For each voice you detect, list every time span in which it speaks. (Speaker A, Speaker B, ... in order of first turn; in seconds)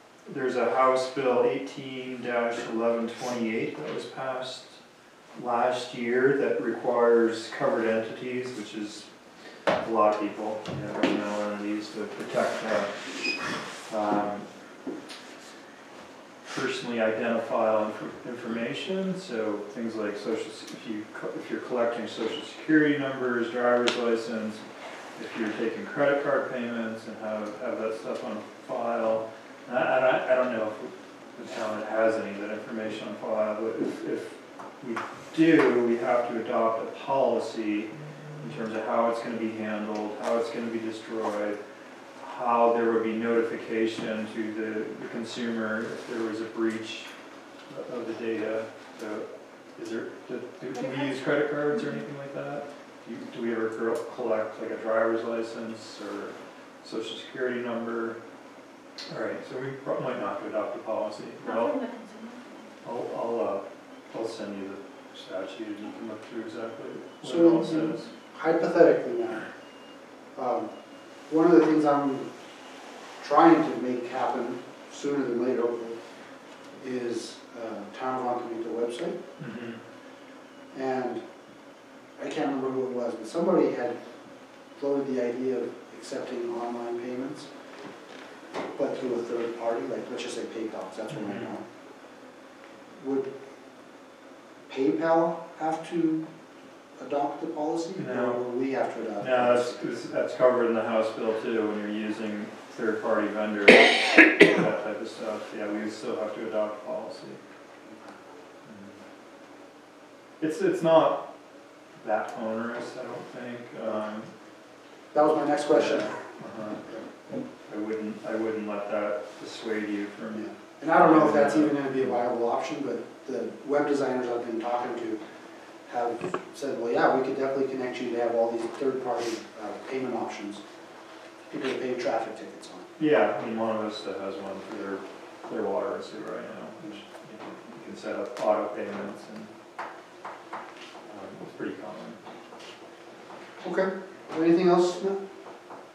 Speaker A: 0.2-4.8, 5.3-9.1, 9.8-14.5, 16.5-24.6, 25.1-41.6, 42.2-47.1, 47.7-58.2, 59.1-61.7, 62.8-68.1, 79.4-79.8, 91.1-91.5, 97.9-98.4, 99.2-107.4, 108.6-109.0, 110.4-111.2, 111.9-114.3, 115.7-121.9, 133.0-139.5, 141.0-142.2
Speaker B: 50.7-52.0, 61.4-62.8
Speaker C: 67.2-69.5, 70.3-70.7, 71.3-72.3, 73.2-76.0, 76.8-79.2, 80.7-81.2, 82.2-84.0, 84.8-87.5, 88.7-91.6, 93.0-93.3, 94.7-96.3, 97.0-100.0, 107.9-108.1, 115.1-116.1, 120.3-125.2, 125.9-130.6, 131.5-132.9, 143.6-145.2